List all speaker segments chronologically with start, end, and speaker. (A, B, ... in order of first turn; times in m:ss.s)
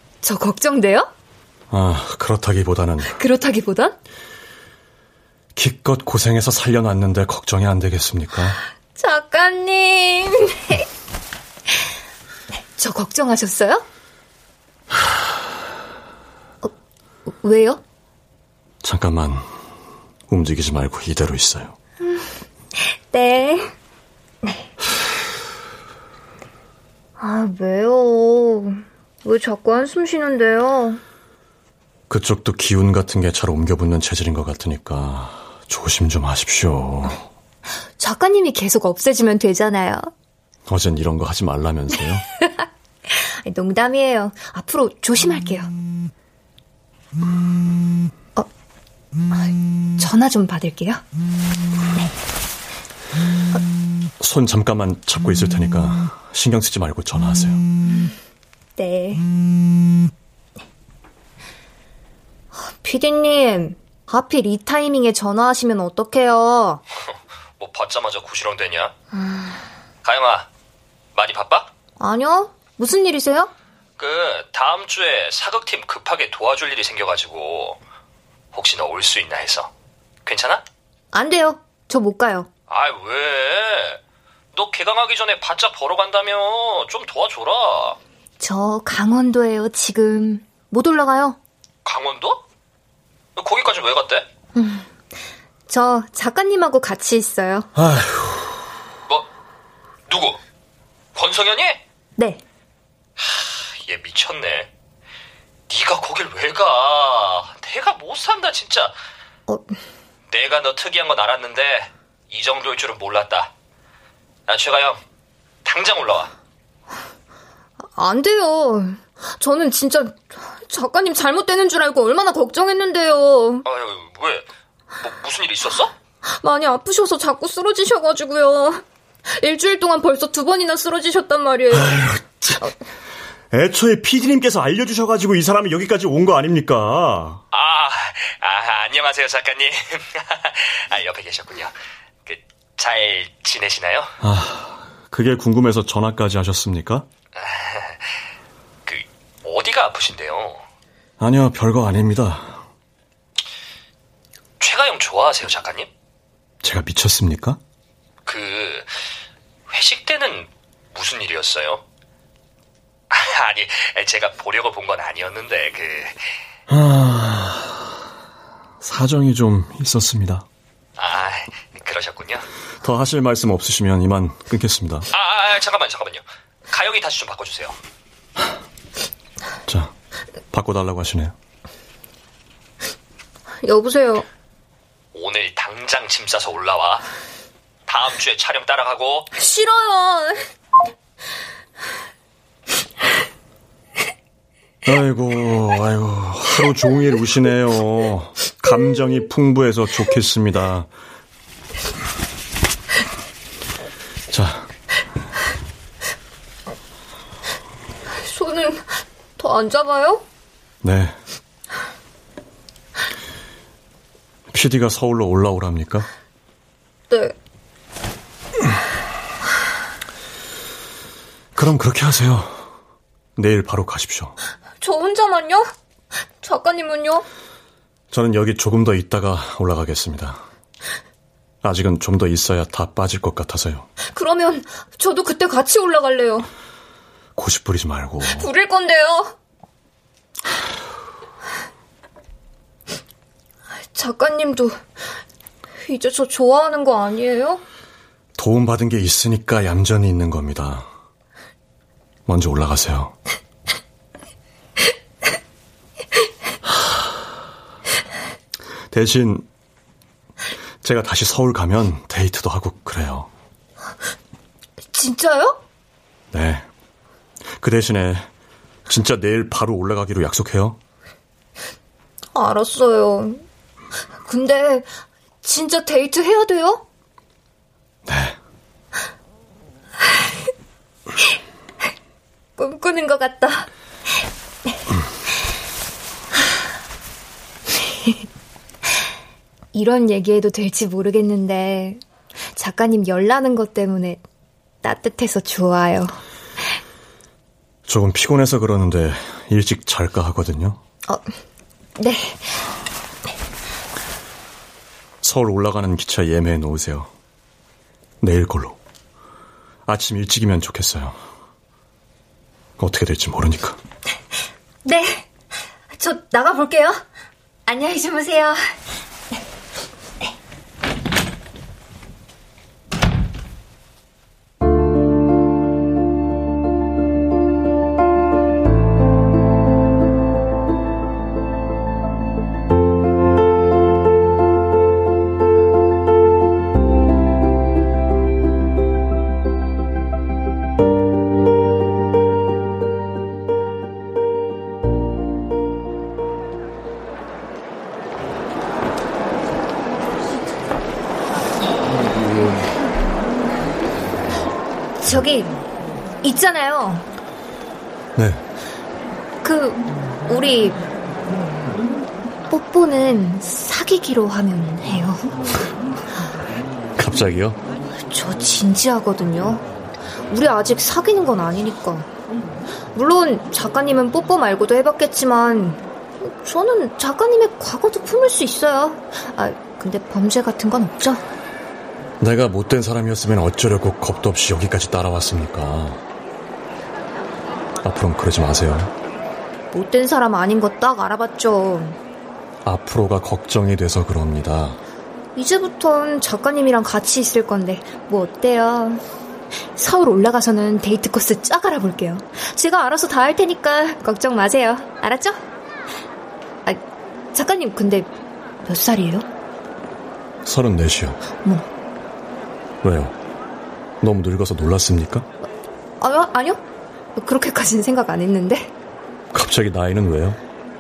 0:00.2-0:01.1 A
0:01.7-0:03.2 B
0:03.1-0:04.0 A
0:05.6-0:08.6 B
0:09.0-0:10.9 A
0:12.5-0:13.8 A
0:17.3-0:17.8 A
0:18.8-0:19.4 B
0:20.3-0:21.8 B
0:22.0-0:22.3 A
0:22.8-0:23.7 A
0:27.2-0:31.0 A
0:32.1-0:37.2 B
0:38.0-0:40.1 A
0:40.7-0:42.2 B
0:42.5-0:45.7 A
0:50.0-0:51.0 A
0:54.2-0:57.6 B
0:58.8-0:59.3 A
1:02.5-1:06.8 A
1:07.6-1:08.9 C
1:10.0-1:10.5 C
1:11.2-1:11.7 C
1:12.0-1:13.5 A
1:14.0-1:17.8 C
1:18.5-1:19.7 C
1:20.3-1:20.6 C
1:21.1-1:22.5 A
1:22.7-1:24.0 C
1:24.5-1:28.0 C
1:28.4-1:31.4 A
1:31.8-1:32.4 C
1:33.4-1:34.3 C
1:34.6-1:34.9 A
1:35.7-1:37.7 A
1:37.8-1:38.7 B
1:40.1-1:40.4 C
1:41.2-1:41.8 C
1:42.2-1:42.4 A
1:43.2-1:44.7 C
1:45.7-1:48.9 C
1:49.5-1:49.8 A
1:50.3-1:53.5 C
1:54.5-1:55.0 C
1:55.6-1:56.3 C
1:57.8-2:03.7 A
2:03.7-2:04.5 C
2:05.0-2:05.9 C
2:06.3-2:12.1 A
2:11.7-2:12.6 B
2:13.5-2:17.4 B
2:17.5-2:21.7 C
2:22.3-2:24.1 C
2:24.2-2:27.1 B
2:27.4-2:28.1 C
2:28.9-2:30.6 C
2:31.2-2:32.6 B
2:34.6-2:35.9 C
2:36.6-2:37.6 B
2:38.3-2:39.0 C
2:39.7-2:41.8 C
2:43.1-2:46.2 C
2:46.7-2:47.9 B
2:48.8-2:50.5 B
2:51.0-2:52.5 C
2:52.8-2:55.1 B
2:55.1-2:57.8 C
2:59.7-2:59.9 B
3:00.5-3:01.4 B
3:03.6-3:04.3 A
3:05.1-3:07.1 C
3:07.9-3:09.3 C
3:09.3-3:10.5 A
3:14.8-3:20.9 B
3:24.3-3:24.7 B
3:28.2-3:30.2 A
3:30.8-3:31.2 B
3:34.5-3:36.1 B
3:37.1-3:37.4 A
3:41.6-3:42.7 B
3:43.4-3:44.4 B
3:44.8-3:45.7 A
3:46.4-3:47.3 A
3:48.1-3:50.4 B
3:51.6-3:53.9 B
3:54.1-3:56.5 A
3:57.4-3:58.5 B
3:58.2-3:59.4 A
4:03.8-4:04.8 A
4:05.8-4:07.6 A
4:08.4-4:10.9 B
4:12.3-4:13.2 B
4:18.9-4:19.5 B
4:20.8-4:23.3 B
4:24.8-4:25.6 A
4:26.3-4:26.7 B
4:27.6-4:28.3 B
4:28.9-4:30.8 B
4:32.4-4:33.4 A
4:34.2-4:34.9 A
4:35.4-4:36.8 A
4:38.1-4:38.4 B
4:42.6-4:43.7 A
4:49.7-4:52.0 A
4:52.6-4:54.2 A
4:54.8-4:56.2 A
4:57.9-5:00.8 B
5:02.0-5:02.6 A
5:05.2-5:07.1 B
5:08.2-5:08.8 B
5:09.9-5:11.2 B
5:12.8-5:13.8 B
5:14.8-5:15.3 A
5:15.9-5:17.0 A
5:17.7-5:18.6 A
5:55.0-5:55.6 A
5:56.2-5:57.1 A
5:58.2-5:58.4 B
5:59.4-6:00.8 A
6:02.5-6:05.3 A
6:07.0-6:07.6 B
6:08.1-6:09.6 A
6:10.3-6:12.1 A
6:13.0-6:21.2 A
6:22.2-6:26.0 B
6:27.8-6:28.9 B
6:29.7-6:32.0 A
6:32.6-6:34.8 B
6:35.4-6:39.0 A
6:39.8-6:45.4 A
6:46.6-6:48.1 A
6:48.6-6:49.3 A
6:50.4-6:51.2 B
6:52.8-6:53.2 B
6:54.0-6:55.3 B
6:56.0-6:56.6 A
6:57.2-6:58.7 A
6:59.3-7:00.4 B